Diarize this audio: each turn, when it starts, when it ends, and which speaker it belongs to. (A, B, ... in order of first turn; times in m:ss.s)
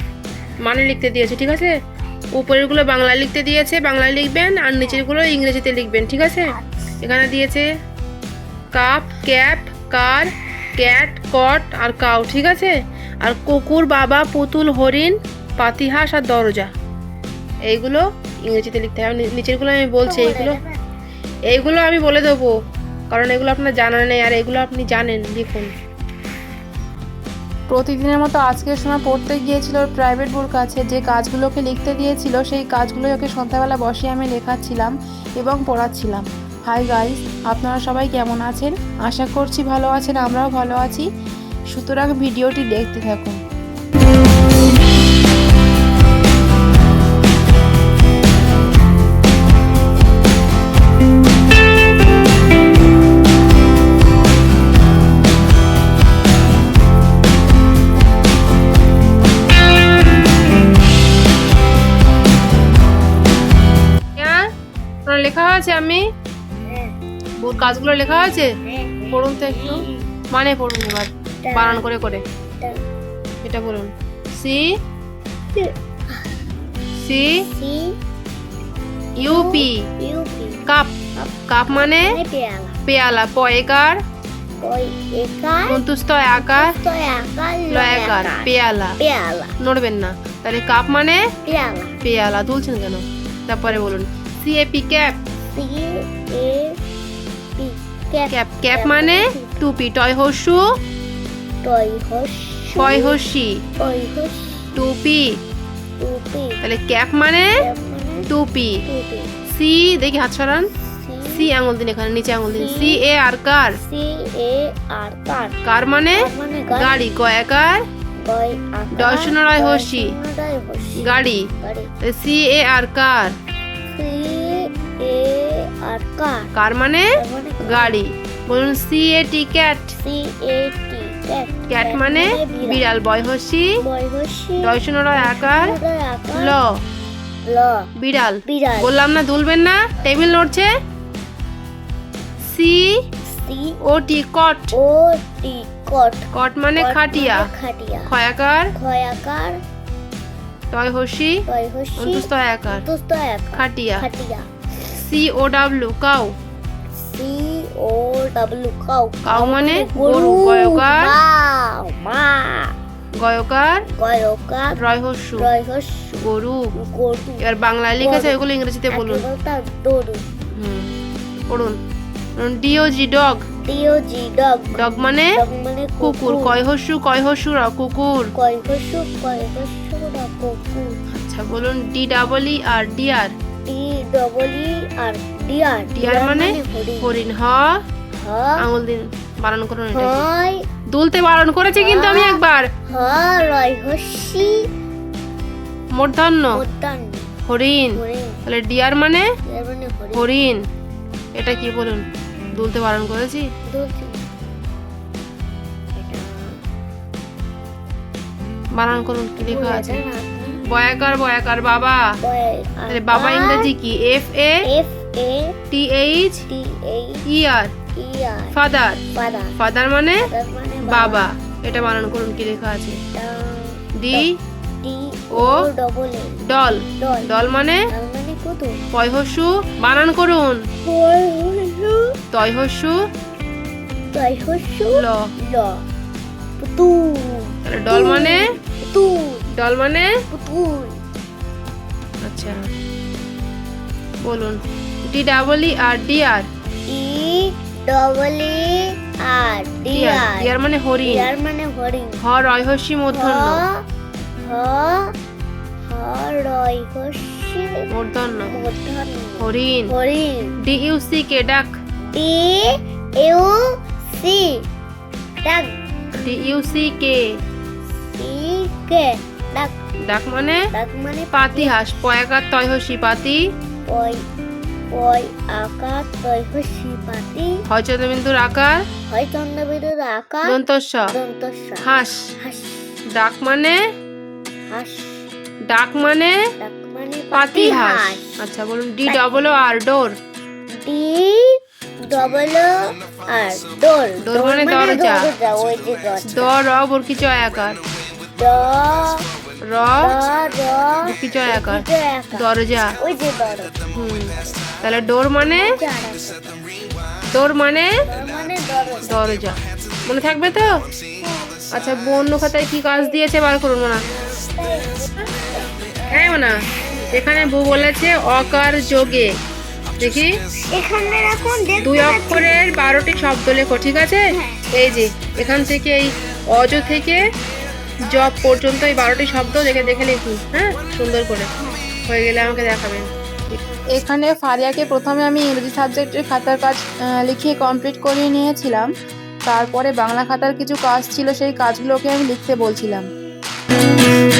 0:00.6-0:01.7 A
0:02.3-0:06.5 A
0:06.5-0:07.0 B
0:07.0-0:07.6 A
0:08.7-0:16.7 A
0:17.7-0:20.6 A
0:20.0-0:20.8 B
0:21.5-0:22.5 A
0:23.1-0:25.7 A
0:27.7-0:41.1 A
0:41.7-0:43.4 A
1:04.2-1:04.4 A
1:05.0-1:06.0 A
1:06.6-1:07.0 B
1:07.4-1:08.5 A
1:08.6-1:10.1 B
1:09.1-1:12.2 A
1:11.4-1:12.8 B
1:13.4-1:14.7 A
1:15.5-1:16.4 B
1:17.0-1:17.4 A
1:17.5-1:18.0 B
1:19.2-1:19.8 A
1:19.2-1:22.8 B
1:20.7-1:20.9 A
1:21.5-1:22.1 A
1:22.8-1:24.0 A
1:24.6-1:25.8 B
1:25.7-1:26.7 A
1:26.3-1:29.6 B
1:27.7-1:29.0 A
1:29.6-1:31.3 A
1:31.4-1:32.0 B
1:32.0-1:35.2 A
1:33.7-1:34.0 B
1:35.5-1:36.8 B
1:37.6-1:39.6 B
1:38.3-1:40.6 A
1:41.6-1:43.2 B
1:42.7-1:43.6 A
1:43.8-1:44.7 B
1:44.7-1:45.4 A
1:46.0-1:46.6 B
1:46.6-1:47.6 A
1:47.6-1:48.3 B
1:48.3-1:48.8 A
1:48.8-1:49.3 B
1:49.5-1:50.7 A
1:50.8-1:51.5 B
1:51.2-1:53.8 A
1:52.5-1:53.0 B
1:53.7-1:55.6 B
1:55.6-1:57.8 A
1:56.1-1:57.1 B
1:58.2-2:01.9 B
1:58.9-2:00.1 A
2:01.0-2:01.5 A
2:02.0-2:03.3 A
2:03.9-2:06.5 B
2:06.5-2:07.1 A
2:07.2-2:08.0 B
2:07.6-2:09.9 A
2:10.0-2:12.9 B
2:11.7-2:13.7 A
2:13.8-2:16.6 B
2:14.6-2:15.7 A
2:16.3-2:16.6 A
2:17.4-2:17.9 B
2:18.0-2:20.7 A
2:18.4-2:19.0 B
2:22.4-2:23.0 A
2:23.2-2:23.8 B
2:23.8-2:24.7 A
2:24.7-2:28.1 B
2:26.3-2:27.5 A
2:28.1-2:28.7 A
2:28.7-2:29.6 B
2:30.7-2:31.4 A
2:31.5-2:34.5 B
2:32.0-2:32.8 A
2:33.6-2:34.0 A
2:34.9-2:36.3 A
2:37.0-2:42.7 B
2:39.2-2:41.1 A
2:43.1-2:43.8 A
2:44.0-2:44.8 B
2:44.8-2:45.5 A
2:45.4-2:46.2 B
2:46.2-2:46.7 A
2:46.7-2:47.4 B
2:47.4-2:49.2 A
2:48.0-2:50.2 B
2:50.6-2:50.9 A
2:51.5-2:51.8 A
2:52.4-2:53.4 A
2:53.6-2:56.6 B
2:54.7-2:55.3 A
2:56.0-2:58.3 A
2:58.3-3:01.0 B
3:01.1-3:03.3 A
3:03.6-3:07.2 B
3:05.9-3:07.8 A
3:08.2-3:08.6 B
3:08.6-3:10.3 A
3:09.9-3:10.6 B
3:10.9-3:12.7 A
3:11.8-3:14.7 B
3:15.9-3:16.6 A
3:16.5-3:17.3 B
3:17.5-3:19.2 A
3:17.9-3:18.4 B
3:19.5-3:20.3 B
3:20.2-3:20.6 A
3:21.4-3:23.5 A
3:23.6-3:24.2 B
3:25.9-3:26.6 B
3:28.8-3:30.0 A
3:29.4-3:30.6 B
3:30.6-3:32.1 A
3:32.2-3:33.7 B
3:32.9-3:34.6 A
3:34.6-3:35.6 B
3:35.7-3:36.5 A
3:36.5-3:37.2 B
3:37.3-3:37.7 A
3:37.9-3:38.6 B
3:38.5-3:39.0 A
3:39.1-3:39.5 B
3:39.6-3:40.3 A
3:40.2-3:41.3 B
3:40.8-3:43.0 A
3:42.0-3:42.2 B
3:43.1-3:44.3 B
3:44.0-3:44.3 A
3:44.8-3:47.4 B
3:46.5-3:47.8 A
3:47.9-3:48.8 B
3:48.9-3:50.6 A
3:50.8-3:52.2 B
3:52.3-3:53.0 A
3:54.1-3:55.8 B
3:54.9-3:55.3 A
3:56.6-3:59.5 B
3:57.6-3:58.4 A
3:59.6-4:00.1 A
4:00.3-4:01.0 B
4:02.2-4:02.6 A
4:04.2-4:06.5 A
4:06.9-4:10.5 B
4:09.9-4:11.3 A
4:11.0-4:12.2 B
4:12.2-4:13.6 A
4:13.1-4:13.8 B
4:14.4-4:15.1 B
4:15.9-4:17.8 B
4:17.9-4:18.6 A
4:18.4-4:20.5 B
4:19.4-4:19.9 A
4:20.6-4:21.8 A
4:22.1-4:24.6 B
4:25.4-4:25.7 B
4:26.2-4:27.2 A
4:28.2-4:29.7 B
4:30.0-4:30.6 A
4:30.7-4:31.8 B
4:31.3-4:33.5 A
4:33.8-4:34.2 B
4:34.9-4:37.6 B
4:37.7-4:38.8 A
4:39.1-4:41.9 B
4:40.4-4:41.1 A
4:41.8-4:42.3 A
4:42.4-4:43.0 B
4:43.1-4:43.8 A
4:44.7-4:45.3 B
4:45.7-4:46.4 A
4:46.6-4:48.2 B
4:47.3-4:50.2 A
4:49.0-4:49.6 B
4:50.7-4:56.5 B
4:54.2-4:55.3 A
4:56.3-4:57.8 A
4:58.4-4:59.3 B
4:59.6-5:00.2 A
5:00.0-5:03.8 B
5:01.0-5:01.8 A
5:02.3-5:02.9 A
5:03.9-5:05.7 A
5:04.3-5:04.7 B
5:05.4-5:06.6 B
5:07.3-5:08.0 A
5:08.0-5:09.2 B
5:09.0-5:10.9 A
5:11.2-5:11.7 B
5:11.7-5:14.0 A
5:14.0-5:17.1 B
5:16.1-5:16.6 A
5:17.1-5:19.4 A
5:20.0-5:20.4 A
5:20.7-5:22.6 B
5:21.8-5:27.2 A
5:24.3-5:24.6 B
5:28.0-5:31.5 A
5:32.0-5:34.4 A
5:34.7-5:35.1 C
5:35.3-5:36.0 A
5:36.1-5:36.8 C
5:37.4-5:38.2 C
5:41.3-5:41.9 C